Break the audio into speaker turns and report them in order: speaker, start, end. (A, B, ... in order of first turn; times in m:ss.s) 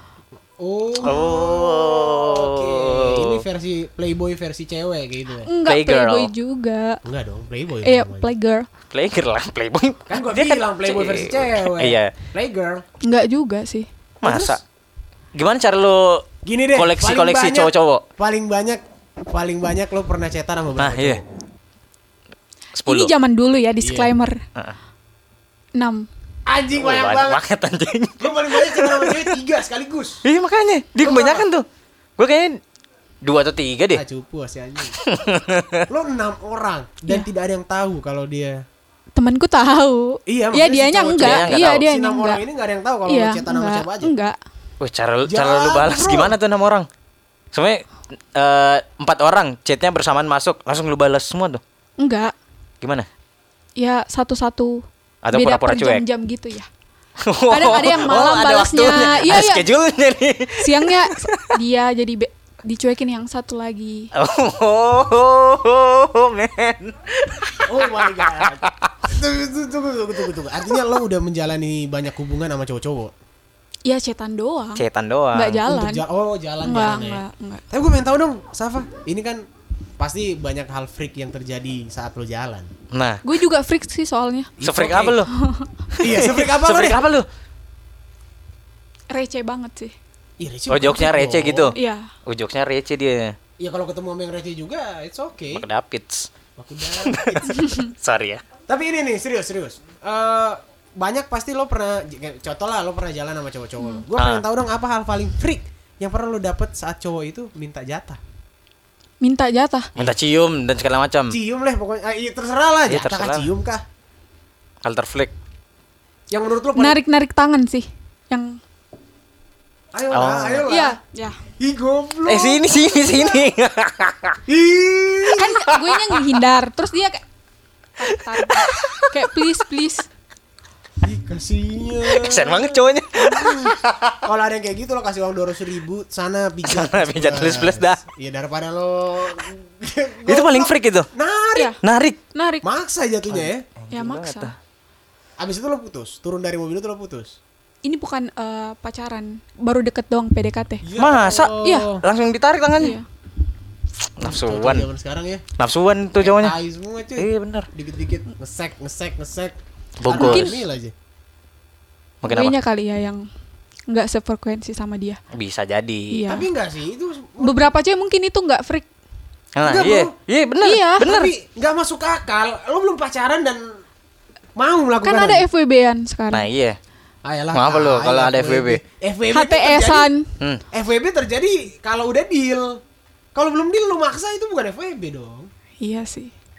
0:00.6-0:05.5 A
0:01.0-0:03.4 B
0:05.4-0:07.0 C
0:05.6-0:06.3 B
0:07.0-0:08.3 A
0:07.8-0:08.7 C
0:08.9-0:12.1 B
0:10.1-0:12.8 A
0:13.0-0:13.9 C
0:14.2-0:14.6 A
0:14.2-0:14.6 B
0:15.4-0:16.2 B
0:16.4-0:21.2 A
0:16.7-0:18.0 B
0:20.8-0:21.2 B
0:22.8-0:23.1 B
0:22.8-0:24.4 C
0:23.8-0:24.1 A
0:25.8-0:26.0 C
0:26.4-0:27.4 A
0:26.7-0:29.2 B
0:28.2-0:30.2 A
0:30.2-0:31.6 B
0:31.0-0:31.5 A
0:32.2-0:32.6 B
0:33.2-0:34.0 B
0:33.9-0:35.0 A
0:35.0-0:35.8 B
0:35.9-0:38.6 A
0:39.1-0:42.4 C
0:40.3-0:44.1 A
0:41.2-0:41.8 B
0:43.0-0:44.4 C
0:44.8-0:46.9 B
0:45.2-0:46.3 A
0:47.5-0:47.8 B
0:48.3-0:51.6 B
0:52.0-0:52.3 C
0:52.8-0:53.1 B
0:53.8-0:56.7 C
0:55.2-0:56.0 B
0:57.2-1:01.5 B
0:57.5-0:59.7 C
1:00.6-1:04.1 C
1:04.1-1:08.5 B
1:07.6-1:13.1 A
1:13.8-1:16.0 C
1:14.8-1:15.6 B
1:15.6-1:19.4 A
1:16.6-1:17.6 C
1:20.0-1:22.7 A
1:22.9-1:23.2 B
1:23.2-1:24.5 C
1:24.6-1:25.2 A
1:24.6-1:25.3 B
1:25.3-1:25.7 C
1:26.0-1:27.2 B
1:26.0-1:27.0 A
1:29.1-1:29.9 C
1:30.4-1:31.7 A
1:30.7-1:31.8 B
1:31.7-1:32.1 C
1:32.3-1:33.4 B
1:33.6-1:35.6 A
1:35.5-1:36.3 B
1:36.6-1:37.8 A
1:37.0-1:38.4 B
1:37.5-1:37.8 C
1:38.7-1:48.2 A
1:44.2-1:44.4 B
1:49.2-1:49.9 C
1:50.0-1:51.4 B
1:51.3-1:53.8 A
1:52.9-1:53.5 B
1:54.8-1:55.3 B
1:56.3-1:57.0 A
1:56.7-1:58.6 C
1:59.9-2:01.0 A
2:00.1-2:00.7 B
2:00.7-2:01.4 C
2:01.6-2:03.5 A
2:02.3-2:04.4 B
2:04.5-2:05.5 A
2:05.3-2:07.2 C
2:05.7-2:06.4 B
2:08.0-2:10.1 C
2:08.1-2:09.4 B
2:11.0-2:12.8 A
2:12.0-2:14.2 B
2:13.4-2:13.7 A
2:14.2-2:21.7 A
2:16.7-2:18.0 B
2:20.3-2:21.1 B
2:21.8-2:22.2 B
2:22.3-2:22.6 C
2:22.6-2:23.6 A
2:23.3-2:24.5 B
2:23.9-2:24.5 C
2:25.4-2:27.4 A
2:27.8-2:30.8 C
2:30.8-2:32.0 A
2:31.0-2:33.0 B
2:31.6-2:31.9 C
2:32.8-2:33.0 C
2:34.2-2:34.8 B
2:34.2-2:35.4 A
2:35.6-2:36.5 B
2:36.2-2:40.9 A
2:37.2-2:37.7 B
2:40.0-2:40.5 B
2:40.1-2:40.6 C
2:42.2-2:42.6 B
2:42.3-2:43.2 C
2:43.9-2:45.2 C
2:45.3-2:46.2 B
2:46.1-2:46.4 C
2:46.3-2:47.7 A
2:47.4-2:48.9 C
2:49.6-2:51.3 B
2:49.6-2:50.1 A
2:50.6-2:51.1 C
2:51.0-2:53.6 A
2:54.6-2:55.4 A
2:55.0-2:56.5 C
2:56.3-2:56.8 B
2:57.2-3:00.1 A
2:57.5-2:58.8 B
2:59.3-3:00.3 C
3:00.7-3:02.8 A
3:03.3-3:05.5 A
3:05.8-3:06.3 C